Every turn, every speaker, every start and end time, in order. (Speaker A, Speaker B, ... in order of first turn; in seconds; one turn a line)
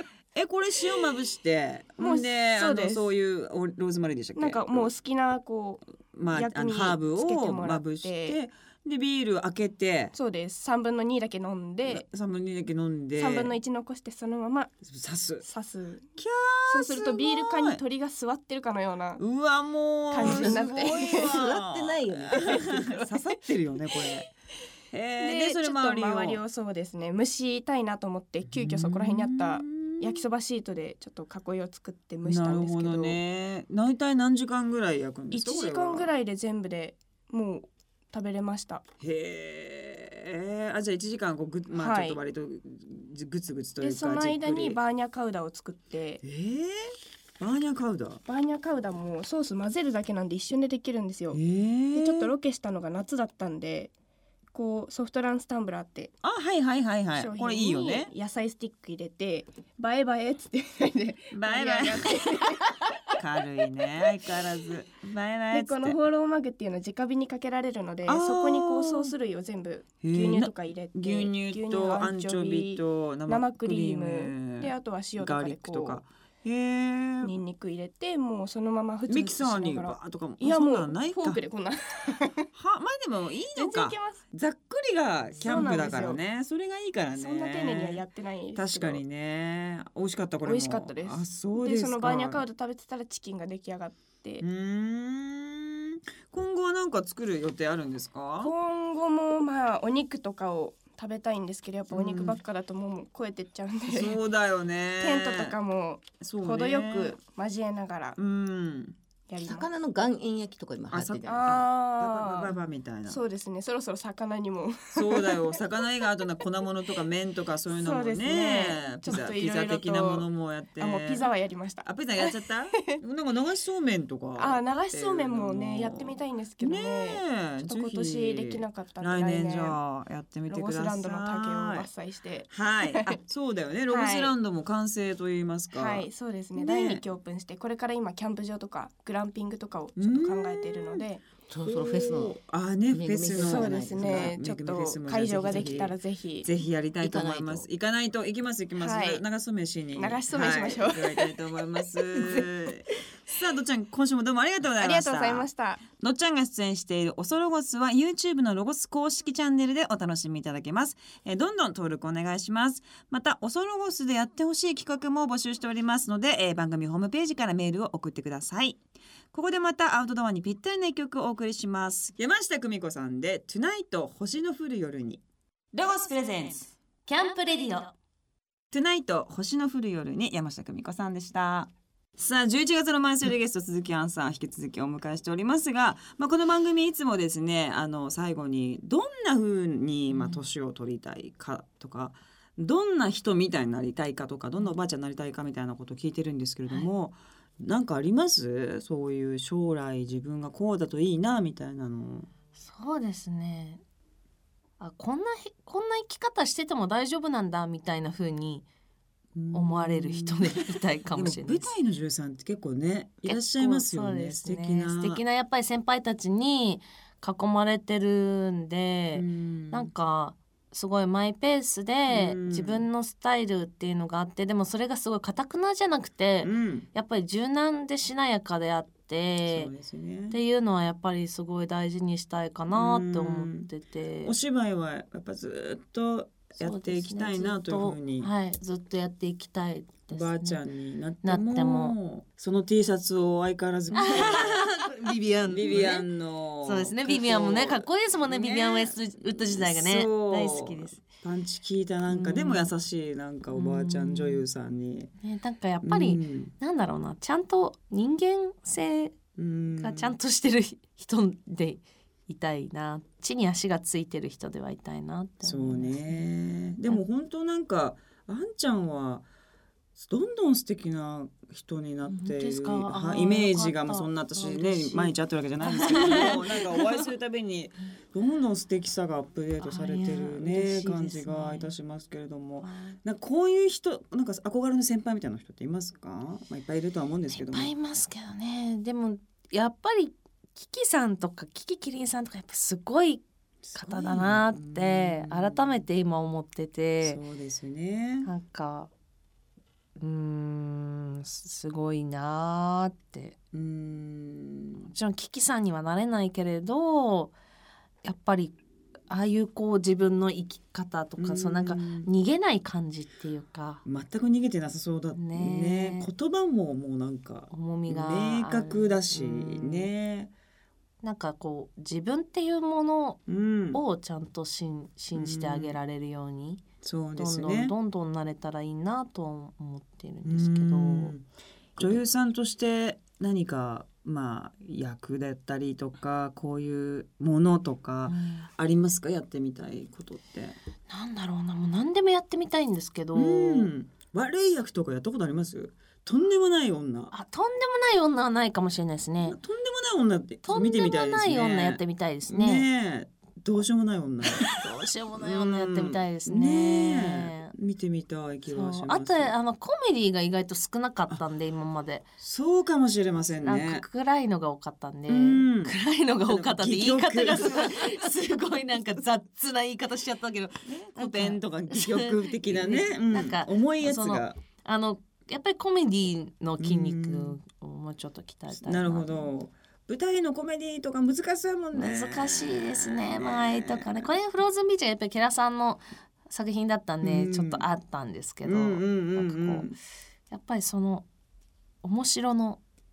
Speaker A: 0.3-4.9
Speaker B: 2.0-3.1
Speaker B: 4.4-5.8
Speaker A: 6.1-10.1
Speaker B: 6.3-8.4
Speaker B: 10.1-12.1
Speaker A: 11.9-13.5
Speaker B: 13.2-14.7
Speaker A: 14.8-15.4
Speaker B: 15.4-16.1
Speaker A: 16.2-17.8
Speaker B: 16.7-19.2
Speaker A: 19.2-24.3
Speaker B: 20.1-21.4
Speaker C: 20.2-23.1
Speaker A: 24.9-26.4
Speaker B: 25.2-33.2
Speaker A: 28.5-30.2
Speaker A: 32.2-36.1
Speaker B: 35.3-38.8
Speaker A: 39.0-44.8
Speaker B: 41.7-42.2
Speaker B: 43.8-46.2
Speaker A: 46.2-48.2
Speaker B: 48.2-51.4
Speaker A: 51.3-52.3
Speaker B: 51.9-53.9
Speaker B: 54.5-56.1
Speaker A: 56.2-58.1
Speaker B: 57.1-63.2
Speaker A: 61.3-62.3
Speaker A: 63.1-66.0
Speaker B: 65.5-76.0
Speaker A: 68.0-69.1
Speaker A: 70.0-77.3
Speaker B: 77.2-82.5
Speaker A: 79.1-81.4
Speaker A: 82.5-92.4
Speaker B: 83.5-84.2
Speaker B: 85.4-86.2
Speaker B: 87.1-89.0
Speaker B: 90.4-94.4
Speaker A: 94.4-98.5
Speaker B: 98.4-104.2
Speaker A: 101.9-102.4
Speaker A: 103.9-105.5
Speaker B: 105.0-108.2
Speaker A: 106.2-107.2
Speaker A: 108.2-109.0
Speaker B: 109.3-109.7
Speaker C: 109.4-111.4
Speaker A: 110.9-113.2
Speaker B: 111.2-112.5
Speaker B: 113.1-115.6
Speaker A: 114.9-121.3
Speaker B: 117.7-122.3
Speaker A: 121.8-131.9
Speaker B: 124.4-129.8
Speaker B: 130.5-133.2
Speaker A: 132.5-137.0
Speaker B: 133.9-134.3
Speaker B: 135.7-141.2
Speaker A: 140.0-141.0
Speaker C: 141.5-142.3
Speaker A: 141.6-168.8
Speaker C: 142.9-144.3
Speaker B: 143.3-146.5
Speaker C: 145.5-145.8
Speaker C: 147.0-147.7
Speaker B: 148.8-149.2
Speaker B: 149.9-152.5
Speaker B: 154.8-155.8
Speaker A: 169.3-175.2
Speaker A: 175.7-176.8
Speaker D: 177.1-177.9
Speaker A: 178.7-202.3
Speaker D: 190.1-190.5
Speaker D: 202.6-203.8
Speaker D: 204.8-208.7
Speaker A: 209.4-215.2
Speaker D: 209.5-211.7
Speaker D: 213.2-229.7
Speaker A: 219.1-219.9
Speaker A: 222.1-222.9
Speaker A: 226.4-226.9
Speaker A: 229.4-230.4
Speaker D: 230.3-234.3
Speaker A: 232.7-233.7
Speaker A: 234.2-238.3
Speaker D: 236.6-240.6
Speaker A: 240.1-244.8
Speaker D: 241.2-241.9
Speaker D: 243.9-246.1
Speaker A: 245.5-255.1
Speaker D: 246.6-251.0
Speaker D: 252.1-252.7
Speaker D: 253.5-254.4
Speaker D: 255.2-259.2
Speaker A: 255.8-256.5
Speaker A: 259.4-260.2
Speaker D: 259.8-266.2
Speaker A: 265.4-269.2
Speaker A: 269.9-287.7
Speaker D: 272.1-277.1
Speaker D: 279.6-281.7
Speaker D: 282.6-283.0
Speaker D: 287.3-293.2
Speaker A: 293.6-295.8
Speaker D: 293.7-297.2
Speaker A: 297.0-298.3
Speaker D: 298.2-298.9
Speaker D: 300.0-303.4
Speaker A: 303.5-304.9
Speaker D: 304.9-307.4
Speaker D: 308.0-308.6
Speaker D: 309.1-313.8
Speaker A: 311.2-312.1
Speaker A: 313.9-320.3
Speaker D: 315.1-316.1
Speaker D: 317.5-319.9
Speaker D: 321.0-323.2
Speaker A: 323.3-323.8
Speaker D: 323.7-326.6
Speaker A: 325.1-325.8
Speaker A: 326.8-327.7
Speaker D: 327.1-331.1
Speaker A: 330.2-331.2
Speaker A: 331.8-340.6
Speaker D: 338.1-338.5
Speaker D: 340.9-343.7
Speaker A: 343.1-347.1
Speaker D: 347.1-349.4
Speaker A: 349.2-354.6
Speaker D: 350.4-352.7
Speaker D: 354.4-357.5
Speaker A: 355.1-359.3
Speaker D: 358.5-362.1
Speaker A: 362.2-363.8
Speaker D: 363.4-379.3
Speaker A: 365.1-365.7
Speaker A: 366.2-368.1
Speaker A: 370.6-374.4
Speaker A: 376.6-377.4
Speaker A: 378.5-384.1
Speaker D: 381.7-389.7
Speaker A: 387.0-387.6
Speaker A: 388.4-389.7
Speaker D: 390.3-391.1
Speaker D: 391.8-392.6